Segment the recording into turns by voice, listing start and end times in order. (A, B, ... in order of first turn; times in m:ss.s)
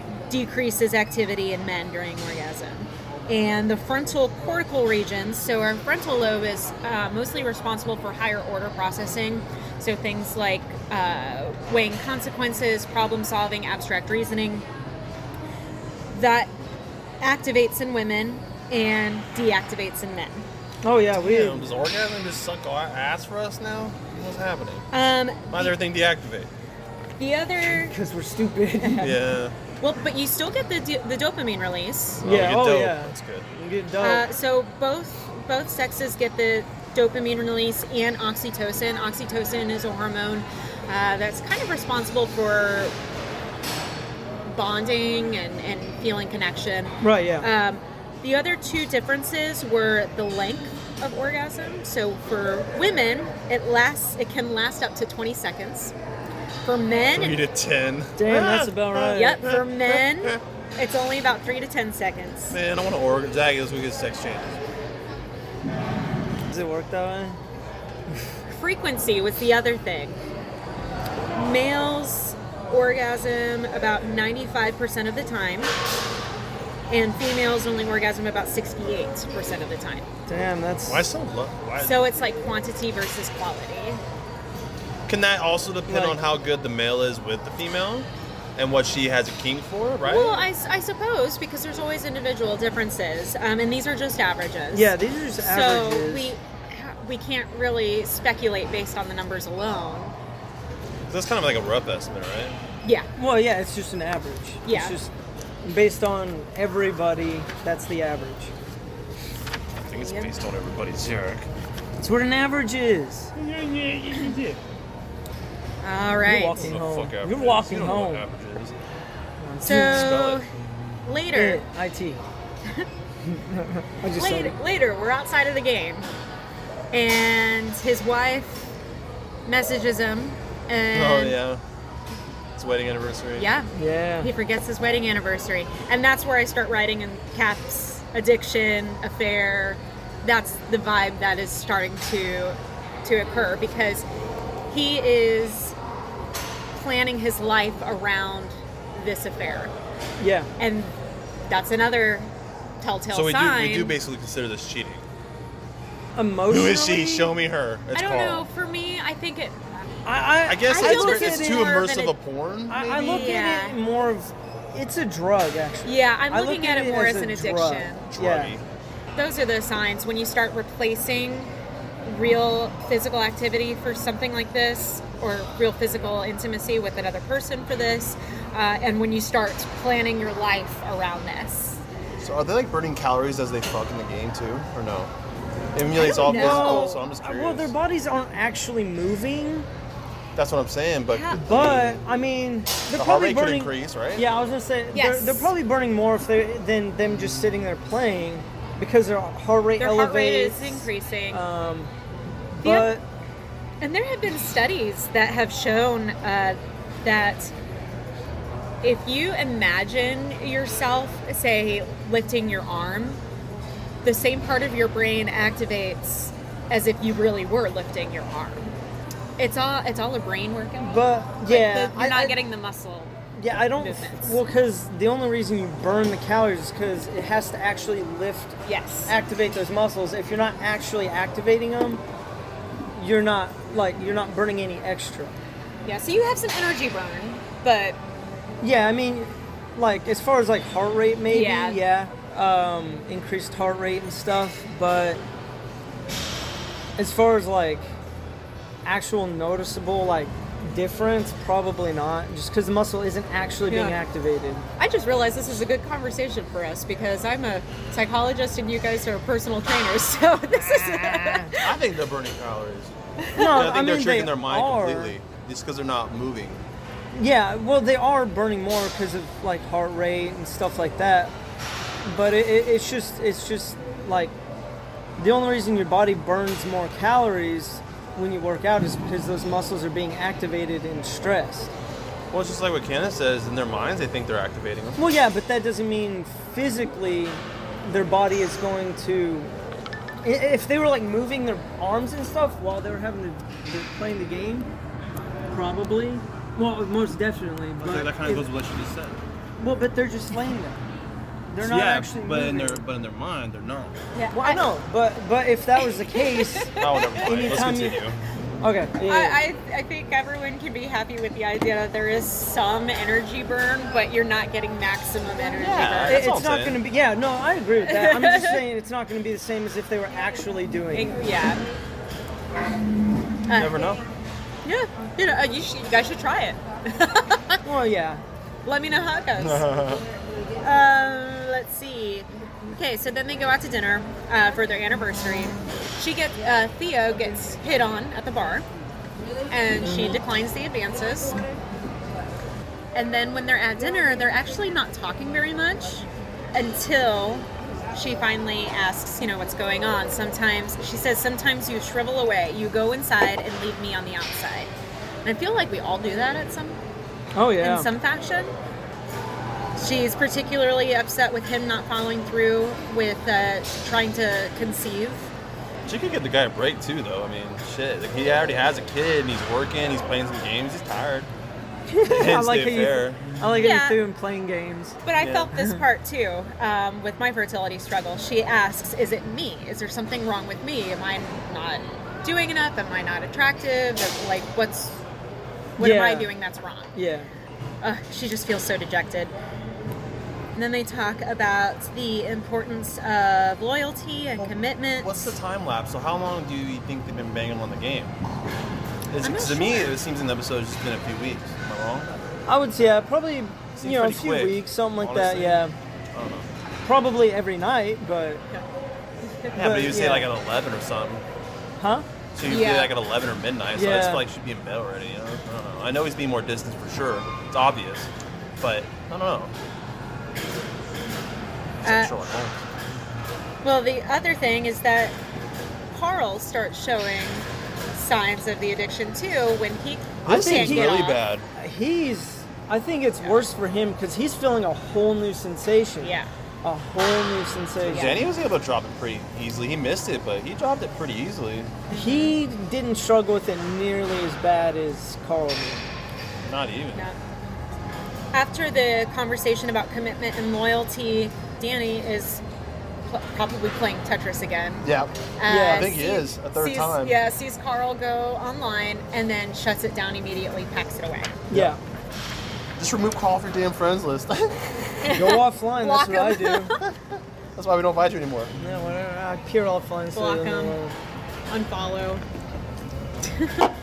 0:00.3-0:14.6 A
0:16.1-0:16.5 A
0:17.2-0:20.5 A
0:20.8-0:21.7 B
0:21.2-0:24.9 C
0:24.9-0:25.7 A
0:25.5-0:26.5 C
0:27.2-0:28.0 A
0:27.6-0:29.2 B
0:28.8-0:29.1 A
0:29.0-0:29.6 C
0:29.8-0:32.2 A
0:32.2-0:33.5 C
0:32.2-0:34.2 B
0:34.0-0:42.9 A
0:44.5-0:55.9 A
0:47.0-0:47.5 B
0:56.6-0:57.4 A
0:57.1-1:00.4 C
0:58.2-0:59.4 B
0:59.1-1:02.6 A
1:02.5-1:04.6 C
1:06.5-1:07.4 B
1:08.5-1:10.2 A
1:11.3-1:15.7 A
1:16.9-1:20.1 A
1:20.3-1:21.1 B
1:20.9-1:22.0 C
1:21.8-1:24.0 A
1:25.1-1:30.5 C
1:25.9-1:26.2 B
1:30.0-1:40.1 A
1:34.7-1:36.4 B
1:41.1-1:42.6 C
1:43.2-1:45.1 B
1:44.6-1:45.0 A
1:45.6-1:48.5 B
1:49.8-1:51.5 C
1:50.0-1:50.3 A
1:52.0-1:53.3 B
1:53.4-1:54.6 C
1:55.8-1:56.7 A
1:56.2-1:58.2 B
1:56.6-1:58.8 C
1:59.4-2:00.2 B
1:59.6-2:00.5 A
1:59.7-2:00.5 C
2:01.0-2:01.6 A
2:01.3-2:02.2 B
2:03.3-2:04.6 B
2:04.2-2:06.1 A
2:06.9-2:08.7 A
2:09.5-2:11.4 A
2:10.9-2:11.6 C
2:12.6-2:13.5 C
2:13.4-2:24.0 A
2:13.8-2:14.3 B
2:24.7-2:25.7 A
2:26.8-2:29.7 A
2:30.2-2:30.5 B
2:30.6-2:31.0 A
2:31.5-2:32.3 A
2:32.8-2:34.0 A
2:33.1-2:35.0 C
2:36.2-2:37.3 B
2:36.5-2:38.5 C
2:37.9-2:39.7 A
2:40.0-2:41.7 B
2:40.5-2:42.8 C
2:40.7-2:42.2 A
2:42.7-2:48.6 B
2:42.8-2:43.8 A
2:45.8-2:48.1 A
2:48.1-2:48.6 C
2:49.2-2:51.5 A
2:52.0-3:01.8 A
3:02.2-3:05.1 C
3:05.7-3:07.7 C
3:05.9-3:07.0 A
3:06.1-3:09.7 B
3:10.4-3:12.0 C
3:11.1-3:11.7 A
3:11.4-3:21.9 B
3:12.9-3:14.2 C
3:14.9-3:15.5 A
3:19.8-3:21.4 A
3:22.6-3:23.0 B
3:22.6-3:22.9 A
3:23.8-3:27.5 A
3:28.8-3:33.2 A
3:34.0-3:38.7 A
3:39.4-3:44.4 A
3:40.8-3:42.4 B
3:43.4-3:52.0 B
3:48.6-3:49.1 A
3:53.0-3:55.4 B
3:55.8-3:58.0 A
3:58.6-4:05.2 B
4:01.3-4:01.8 A
4:07.0-4:07.9 B
4:08.8-4:14.7 B
4:13.7-4:14.0 A
4:14.8-4:21.8 A
4:20.6-4:21.6 B
4:21.6-4:26.6 C
4:23.2-4:23.5 A
4:23.4-4:25.2 B
4:27.1-4:31.3 B
4:32.0-4:34.4 B
4:35.2-4:41.7 B
4:42.3-4:45.0 C
4:45.0-4:49.5 B
4:50.2-4:54.7 B
4:55.5-4:58.5 B
4:57.8-4:59.2 C
4:59.6-5:00.8 B
5:01.5-5:02.8 B
5:01.6-5:04.0 C
5:04.1-5:04.7 A
5:04.3-5:08.0 B
5:05.8-5:07.5 A
5:06.8-5:08.2 C
5:08.6-5:09.4 B
5:09.0-5:16.2 A
5:15.6-5:16.8 C
5:16.1-5:21.2 B
5:17.9-5:18.6 A
5:20.9-5:21.6 A
5:23.5-5:23.8 A
5:23.5-5:24.0 C
5:24.6-5:27.6 A
5:27.6-5:28.2 B
5:28.6-5:29.7 A
5:29.4-5:30.0 C
5:30.6-5:38.7 A
5:39.5-5:41.4 A
5:39.9-5:40.2 B
5:43.0-5:54.7 A
5:55.2-5:56.8 A
5:57.4-5:57.9 B
5:57.6-5:58.5 A
5:59.8-6:05.3 A
6:05.9-6:11.3 C
6:11.9-6:15.0 B
6:12.0-6:13.2 C
6:13.6-6:14.0 A
6:15.0-6:25.0 A
6:15.2-6:15.5 C
6:15.5-6:15.8 B
6:25.8-6:26.3 B
6:25.8-6:26.9 A
6:26.9-6:27.3 B
6:27.8-6:29.3 A
6:30.6-6:35.3 A
6:34.4-6:38.2 C
6:39.1-6:42.2 C
6:39.2-6:40.0 A
6:42.5-6:45.8 B
6:43.8-6:46.5 C
6:46.8-6:48.4 B
6:49.2-6:49.5 A
6:49.5-6:51.2 C
6:49.5-6:50.3 B
6:51.8-6:52.1 B
6:52.3-6:59.5 C
6:52.4-6:52.9 A
6:53.8-6:54.2 B
7:01.8-7:02.6 C
7:01.8-7:02.2 A
7:03.6-7:05.2 A
7:05.9-7:11.2 A
7:10.2-7:11.5 C
7:10.3-7:11.0 B
7:11.6-7:18.2 B
7:16.0-7:16.3 A
7:17.9-7:18.2 A
7:17.9-7:21.8 C
7:21.9-7:22.4 A
7:21.9-7:25.9 B
7:26.4-7:27.1 C
7:28.3-7:32.4 A
7:33.1-7:34.9 A
7:34.8-7:37.2 C
7:35.4-7:41.4 A
7:35.5-7:35.9 B
7:41.5-7:41.8 B
7:42.8-7:44.6 C
7:45.0-7:46.8 A
7:45.1-7:46.8 B
7:46.8-7:48.5 C
7:48.6-7:51.0 B
7:50.1-7:50.8 A
7:51.5-7:52.2 A
7:53.2-7:53.7 A